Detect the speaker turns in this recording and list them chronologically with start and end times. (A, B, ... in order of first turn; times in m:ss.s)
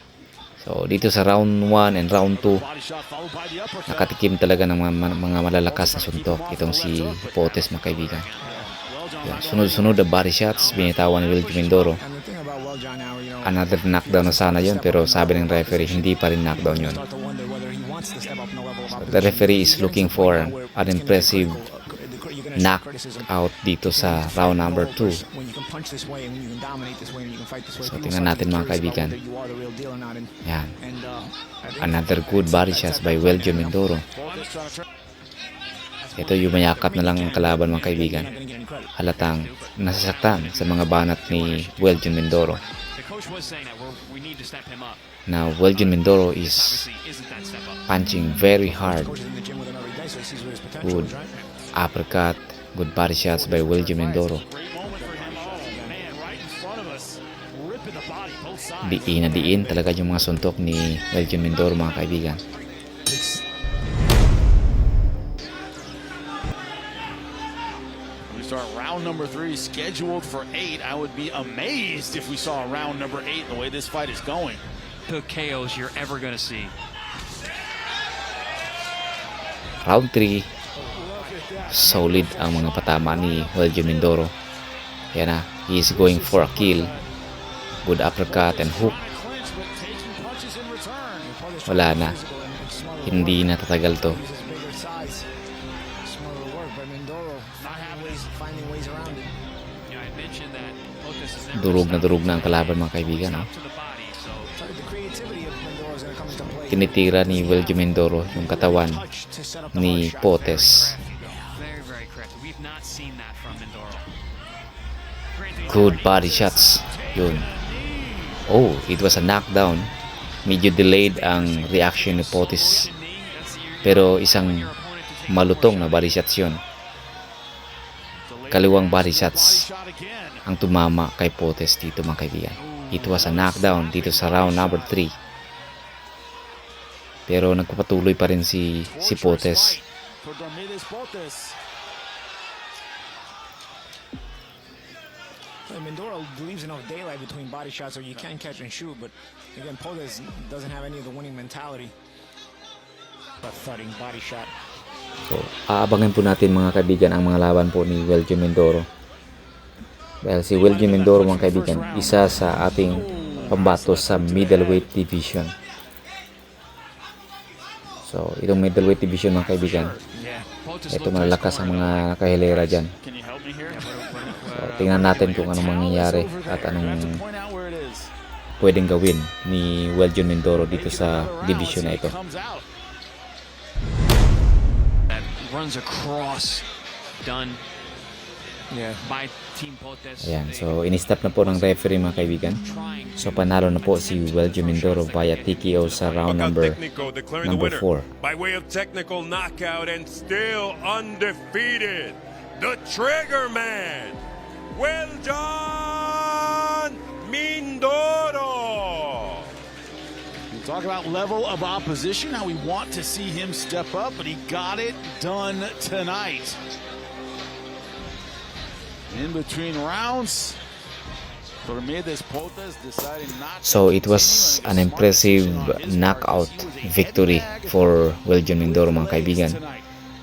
0:00.6-0:02.6 A
0:02.3-0:04.1 B
0:03.9-0:08.3 A
0:05.6-0:07.3 B
0:07.3-0:08.6 C
0:08.4-0:08.7 D
0:08.4-0:12.0 B
0:09.2-0:12.0 A
0:12.0-0:23.3 D
0:13.4-0:17.0 A
0:18.9-0:21.6 A
0:22.6-0:25.2 A
0:23.9-0:33.8 D
0:27.8-0:29.2 A
0:30.4-0:30.8 A
0:31.8-0:34.0 A
0:34.1-0:34.8 B
0:36.2-0:38.3 A
0:36.7-0:38.9 D
0:37.6-0:38.4 C
0:38.9-0:42.6 A
0:39.2-0:45.0 C
0:45.2-0:46.9 A
0:45.7-0:47.8 C
0:47.9-0:49.1 A
0:48.4-0:51.4 D
0:50.8-0:51.1 A
0:51.7-0:54.4 A
0:53.3-0:59.8 B
0:54.8-0:56.0 D
0:58.8-1:02.4 A
0:59.1-0:59.6 D
1:03.0-1:03.4 B
1:08.3-1:14.6 B
1:15.1-1:16.7 C
1:19.8-1:20.5 A
1:20.8-1:21.4 D
1:20.9-1:24.1 B
1:21.7-1:24.3 A
1:25.1-1:26.9 A
1:25.9-1:27.0 B
1:27.8-1:29.0 A
1:28.2-1:31.4 B
1:31.2-1:35.3 D
1:31.6-1:32.2 A
1:33.0-1:34.2 A
1:36.0-1:39.3 D
1:37.6-1:38.3 B
1:39.9-1:44.5 C
1:41.5-1:43.5 A
1:44.5-1:50.3 D
1:46.7-1:49.0 A
1:48.6-1:49.2 B
1:49.7-1:51.0 A
1:50.4-1:54.1 C
1:51.1-1:51.5 B
1:55.3-1:56.4 C
1:55.7-1:57.5 A
1:55.7-1:58.4 B
1:58.5-1:59.9 A
2:00.4-2:02.8 A
2:01.1-2:06.2 C
2:03.8-2:04.7 A
2:05.3-2:06.6 A
2:08.2-2:10.4 B
2:08.5-2:09.7 A
2:10.4-2:15.1 A
2:12.6-2:15.0 B
2:17.3-2:19.8 A
2:18.8-2:21.6 B
2:25.6-2:31.9 D
2:33.4-2:34.5 D
2:35.2-2:38.9 A
2:40.2-2:45.5 A
2:40.5-2:44.9 B
2:48.0-2:50.0 A
2:49.3-2:50.1 B
2:50.2-2:50.4 D
2:50.2-2:51.9 C
2:50.9-2:52.9 A
2:51.2-2:53.8 B
2:53.7-2:55.6 C
2:54.5-2:57.2 A
2:54.8-2:58.1 B
2:58.6-3:02.1 A
3:00.7-3:02.6 B
3:05.1-3:06.6 C
3:07.2-3:07.6 C
3:08.7-3:09.0 D
3:09.0-3:16.4 C
3:10.2-3:12.6 A
3:13.2-3:16.8 A
3:16.2-3:24.2 E
3:17.4-3:18.1 A
3:24.7-3:29.5 E
3:30.5-3:36.6 B
3:39.1-3:40.6 B
3:41.6-3:47.9 B
3:43.6-3:49.6 A
3:48.6-3:49.9 B